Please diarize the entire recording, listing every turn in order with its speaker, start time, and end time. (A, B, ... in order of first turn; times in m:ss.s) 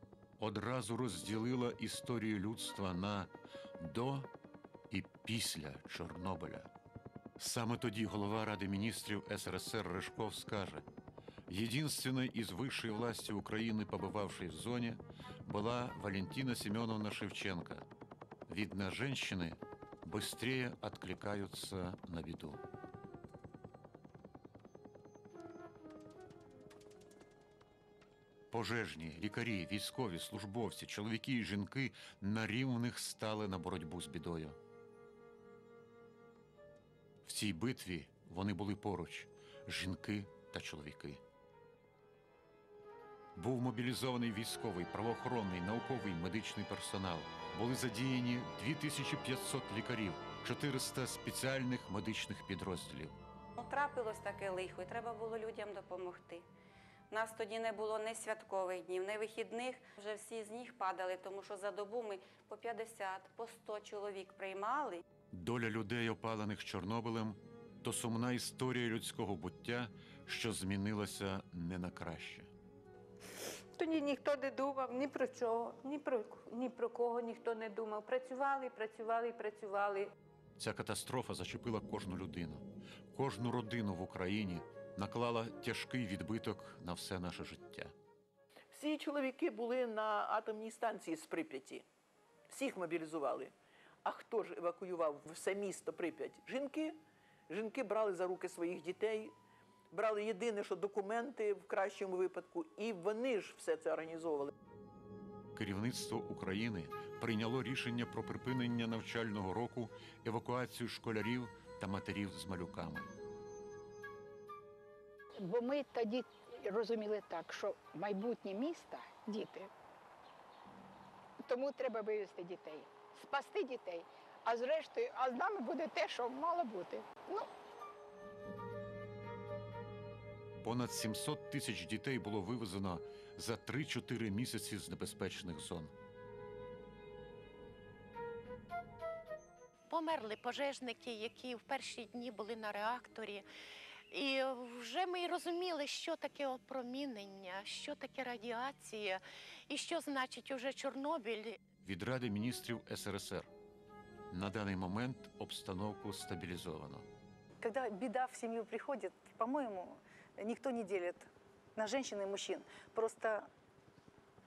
0:00.4-0:04.3 A
0:04.9-0:06.7 A
0:07.4-0:10.9 A
0:11.5-0:17.9 A
0:18.5-0:22.6 A
0:28.5-0:34.6 A
0:37.2-0:41.2 A
0:43.4-0:53.2 A
0:53.6-0:56.4 B
0:57.1-1:05.0 B
1:05.3-1:12.5 A
1:13.8-1:20.1 C
1:20.6-1:27.9 A
1:28.7-1:31.8 D
1:32.5-1:37.0 D
1:37.5-1:39.3 D
1:39.9-1:44.5 D
1:45.6-1:53.1 A
1:55.4-1:59.7 E
2:01.4-2:07.5 E
2:10.6-2:15.9 A
2:19.9-2:23.5 F
2:24.1-2:31.6 F
2:31.8-2:33.5 A
2:34.3-2:37.1 A
2:37.6-2:43.5 G